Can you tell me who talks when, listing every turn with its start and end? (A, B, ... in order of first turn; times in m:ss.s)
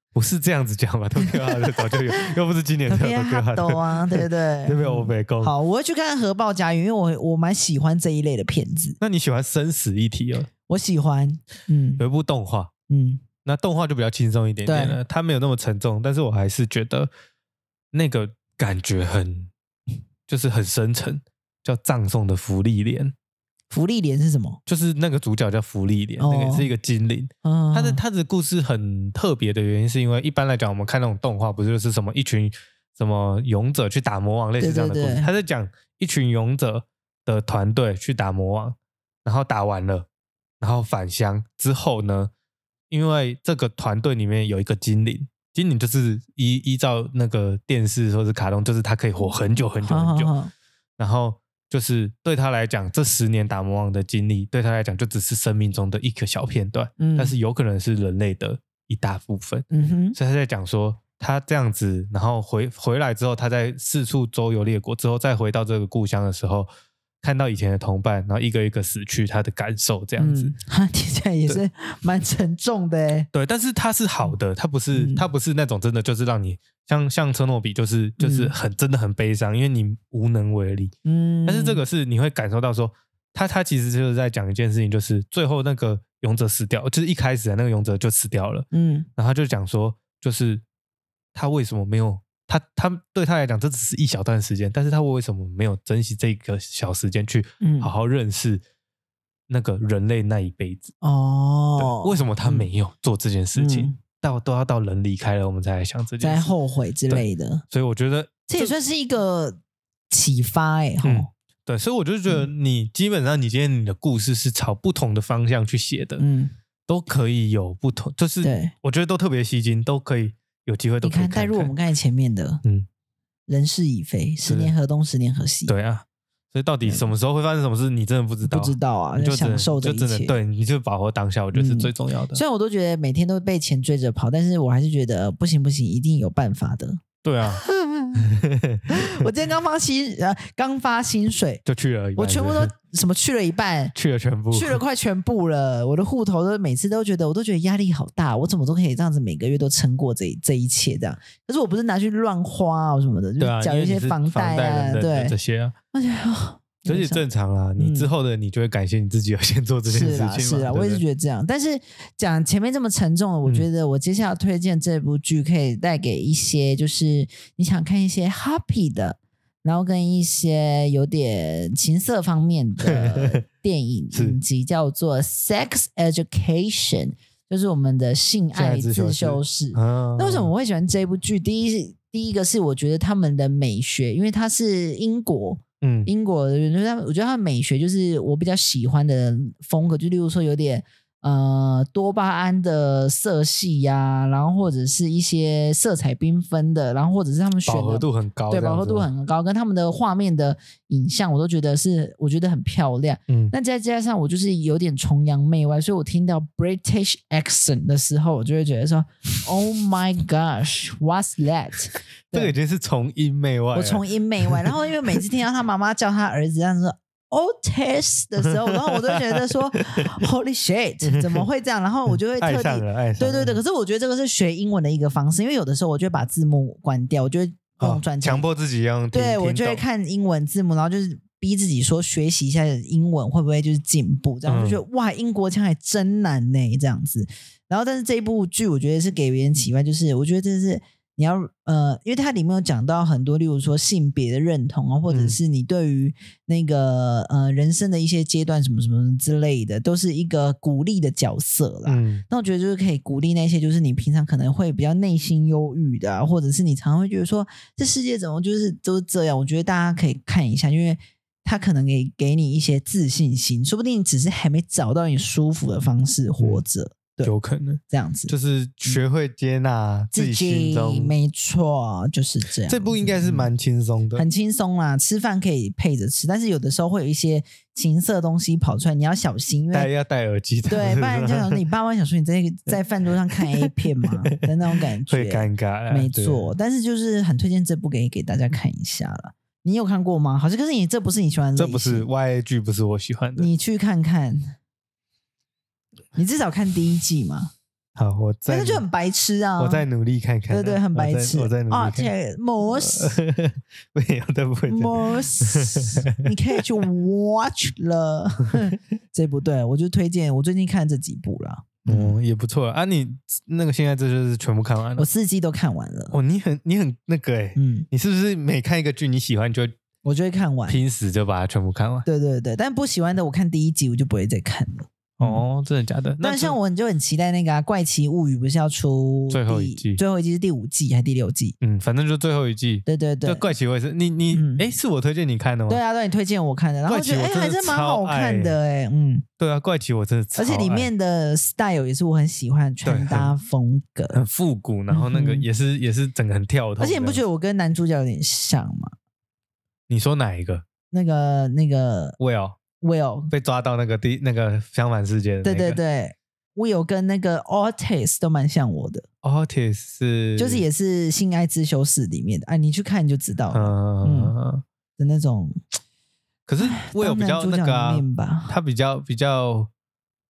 0:00.1-0:05.5 A
0:01.2-0:02.3 B
0:02.9-0:09.0 B
0:09.0-0:10.5 A
0:10.7-0:12.0 B
0:12.0-0:12.7 A
0:12.9-0:13.2 B
0:13.4-0:17.1 A
0:14.6-0:15.0 B
0:17.9-0:19.5 A
0:20.3-0:23.1 A
0:23.7-0:24.6 B
0:24.7-0:40.1 A
0:26.2-0:26.7 B
0:27.4-0:28.0 B
0:34.6-0:35.3 B
0:40.6-0:42.3 A
0:42.9-0:50.3 A
0:49.8-0:50.5 B
0:51.0-1:06.7 A
0:57.0-0:57.4 B
0:59.7-1:00.2 B
1:07.2-1:10.5 A
1:10.2-1:13.3 B
1:13.3-1:20.9 A
1:14.9-1:15.2 B
1:18.2-1:18.5 B
1:21.0-1:21.8 B
1:21.5-1:30.6 A
1:28.7-1:29.1 B
1:31.4-1:38.6 A
1:37.6-1:37.9 B
1:39.5-1:40.9 A
1:41.0-1:42.7 B
1:41.8-1:46.5 A
1:43.6-1:44.0 B
1:46.2-1:47.6 B
1:47.1-1:48.7 A
1:48.5-1:49.6 B
1:50.1-1:51.3 B
1:51.0-1:56.2 A
1:56.2-1:56.5 B
1:56.9-2:01.7 A
1:58.4-1:58.7 B
2:01.0-2:02.6 B
2:03.5-2:05.7 B
2:04.5-2:04.7 A
2:05.7-2:12.4 A
2:06.8-2:07.1 B
2:08.5-2:10.4 B
2:11.5-2:18.3 B
2:17.2-2:17.6 A
2:18.2-2:19.3 A
2:18.9-2:21.6 B
2:21.6-2:22.7 A
2:22.2-2:24.0 B
2:24.0-2:24.8 A
2:24.5-2:35.4 B
2:33.4-2:35.8 A
2:35.9-2:37.2 B
2:36.9-2:41.0 A
2:37.8-2:38.1 B
2:39.9-3:32.6 B
2:52.9-2:53.4 A
2:54.1-2:54.4 A
2:58.5-3:00.5 A
3:05.8-3:06.1 A
3:17.7-3:19.1 A
3:23.3-3:23.5 A
3:32.3-3:34.7 A
3:33.7-3:48.5 B
3:38.7-3:40.2 A
3:41.1-3:41.4 A
3:42.4-3:43.6 A
3:47.8-3:49.8 A
3:49.1-4:27.3 B
3:54.5-3:54.8 A
4:05.1-4:05.4 A
4:11.9-4:12.2 A
4:27.2-4:31.1 A
4:27.9-4:28.3 B
4:30.1-4:33.5 B
4:32.6-4:34.3 A
4:34.2-4:39.9 B
4:39.7-4:41.6 A
4:40.7-4:52.1 B
4:43.3-4:46.5 A
4:51.6-4:53.5 A
4:53.4-4:54.5 B
4:56.2-4:57.5 B
4:58.0-4:58.8 A
4:58.5-4:59.9 B
4:59.6-5:02.1 A
5:00.5-5:03.2 B
5:02.6-5:06.6 A
5:04.7-5:12.2 B
5:11.9-5:15.1 A
5:15.0-5:16.2 B
5:16.1-5:19.8 A
5:17.6-5:17.9 B
5:20.0-5:20.8 B
5:20.7-5:22.1 A
5:22.0-5:25.4 B
5:25.2-5:26.6 A
5:26.2-5:31.6 B
5:29.3-5:30.0 A
5:31.6-5:35.8 A
5:32.9-5:33.5 B
5:34.3-5:34.6 B
5:35.7-5:39.3 B
5:36.9-5:38.6 A
5:39.4-5:40.9 A
5:40.4-5:44.2 B
5:42.8-5:43.3 A
5:44.1-5:47.2 A
5:44.9-5:45.5 B
5:46.8-5:48.9 B
5:49.9-5:50.6 A
5:50.9-5:52.2 B
5:52.2-5:52.6 A
5:52.8-5:53.3 B
5:53.3-5:55.8 A
5:55.4-5:59.1 B
5:59.2-6:00.6 A
6:00.4-6:04.3 B
6:03.5-6:04.6 A
6:05.0-6:05.6 B
6:06.5-6:09.7 A
6:06.6-6:08.6 B